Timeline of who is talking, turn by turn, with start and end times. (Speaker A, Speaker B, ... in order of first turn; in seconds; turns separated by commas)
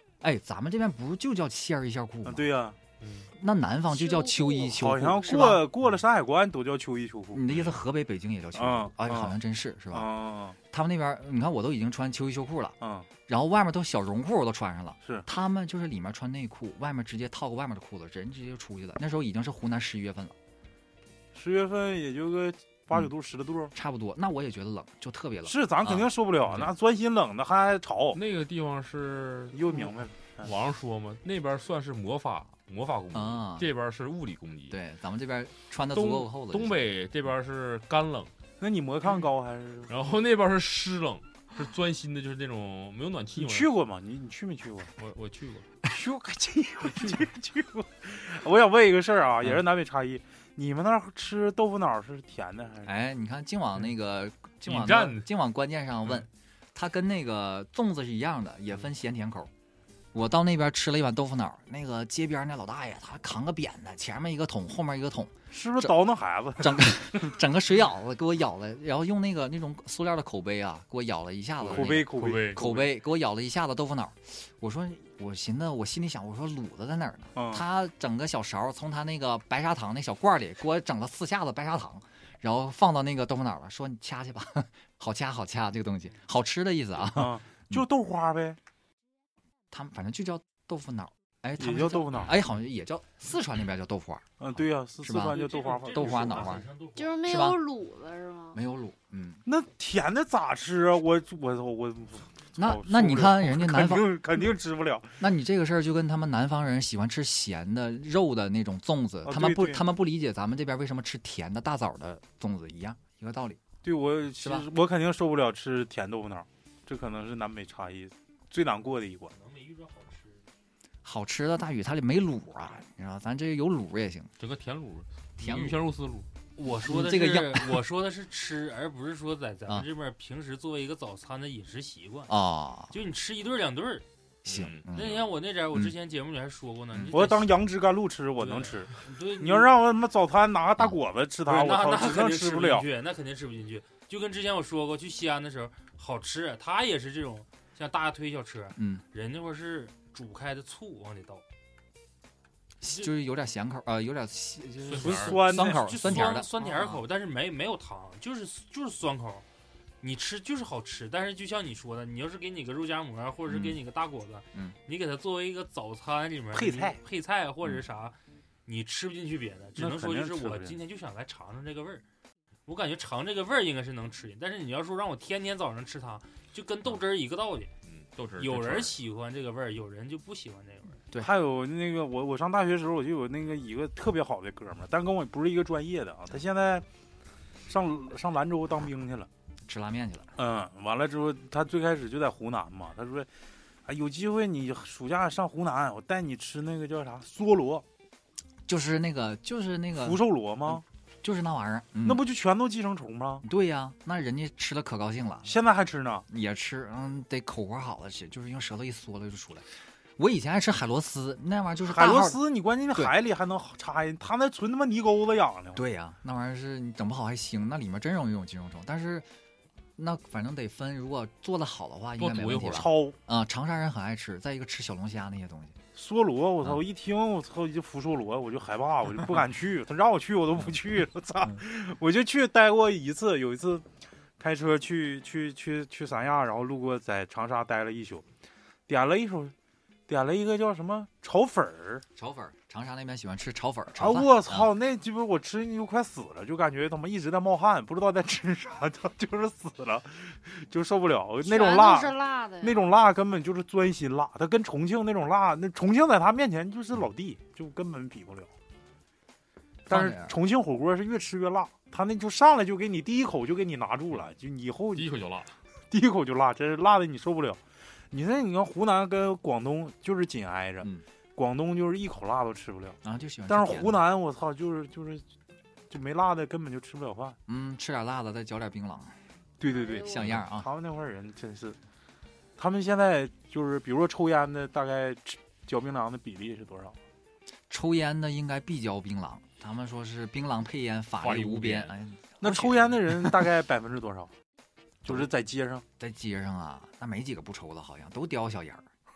Speaker A: 0.2-2.5, Speaker B: 2.2-2.8, Speaker C: 3.0-3.3, Speaker A: 3.4-5.7, Speaker D: 3.9-4.8, Speaker B: 4.7-7.4, Speaker A: 7.3-10.1, Speaker B: 8.6-9.4, Speaker B: 9.9-10.6, Speaker A: 10.7-12.8, Speaker B: 12.8-13.1, Speaker A: 13.3-20.3, Speaker B: 21.3-23.7, Speaker A: 23.7-26.1, Speaker B: 25.4-28.2, Speaker C: 28.1-29.9, Speaker B: 29.5-30.5, Speaker C: 30.4-34.8, Speaker A: 33.1-33.7, Speaker A: 34.7-36.9, Speaker C: 35.9-38.3, Speaker B: 38.6-40.1, Speaker C: 39.9-43.7, Speaker B: 43.4-44.9, Speaker C: 45.0-45.7, Speaker B: 45.9-52.9, Speaker A: 52.9-59.5, Speaker C: 54.7-55.3, Speaker A: 60.1-66.0, Speaker B: 65.5-67.0, Speaker A: 66.6-87.8, Speaker B: 71.6-72.7, Speaker C: 71.7-72.9, Speaker B: 77.3-77.6, Speaker B: 87.1-88.6, Speaker A: 89.7-96.7, Speaker B: 91.6-92.4, Speaker B: 94.4-96.5, Speaker E: 95.2-97.3, Speaker D: 97.0-98.6, Speaker A: 97.2-97.6, Speaker A: 98.5-99.4, Speaker B: 99.5-105.2, Speaker A: 102.6-104.2, Speaker A: 105.2-113.6, Speaker B: 109.2-109.8, Speaker B: 113.8-119.3, Speaker A: 114.4-114.7, Speaker E: 119.3-120.4, Speaker A: 121.0-124.3, Speaker C: 124.4-126.3, Speaker A: 125.4-125.8, Speaker E: 126.6-132.3, Speaker A: 126.9-127.8, Speaker A: 132.3-132.9, Speaker E: 132.9-134.1, Speaker A: 134.4-135.2, Speaker C: 134.5-135.3, Speaker E: 134.9-137.7, Speaker B: 137.1-142.9, Speaker E: 138.4-139.8, Speaker E: 141.4-151.4, Speaker A: 148.8-149.0, Speaker A: 152.8-157.0, Speaker C: 154.9-155.4, Speaker B: 154.9-156.2, Speaker E: 155.5-159.4, Speaker E: 160.0-172.0, Speaker A: 163.5-163.8, Speaker B: 166.5-167.0, Speaker B: 169.8-170.8, Speaker E: 172.7-177.7, Speaker C: 177.9-179.0, Speaker E: 178.4-181.0, Speaker B: 181.2-186.8, Speaker B: 187.7-189.3, Speaker A: 189.7-190.3, Speaker B: 190.4-193.3, Speaker B: 193.9-197.8, Speaker A: 198.7-202.2, Speaker B: 199.9-200.8, Speaker B: 202.0-203.4, Speaker A: 203.4-205.5, Speaker B: 205.4-206.3, Speaker A: 206.3-209.7, Speaker A: 210.2-212.4, Speaker B: 211.8-215.8, Speaker A: 215.8-219.3, Speaker A: 220.0-225.8, Speaker C: 222.2-222.9, Speaker B: 222.7-223.2, Speaker B: 225.9-233.8, Speaker B: 234.4-238.2, Speaker B: 238.9-239.5, Speaker B: 240.1-242.0, Speaker A: 242.2-244.7, Speaker B: 244.0-258.5, Speaker D: 251.4-252.9, Speaker B: 259.9-265.1, Speaker A: 259.9-260.4, Speaker C: 264.9-265.6, Speaker B: 265.9-267.6, Speaker B: 268.1-275.2, Speaker A: 273.0-274.0, Speaker B: 275.9-277.4, Speaker A: 277.5-279.1, Speaker B: 279.6-281.8, Speaker D: 279.6-280.4, Speaker A: 280.1-280.7, Speaker B: 282.6-287.0, Speaker A: 287.7-293.4, Speaker C: 291.2-291.9, Speaker B: 292.4-294.3, Speaker B: 295.0-295.8, Speaker A: 296.0-298.8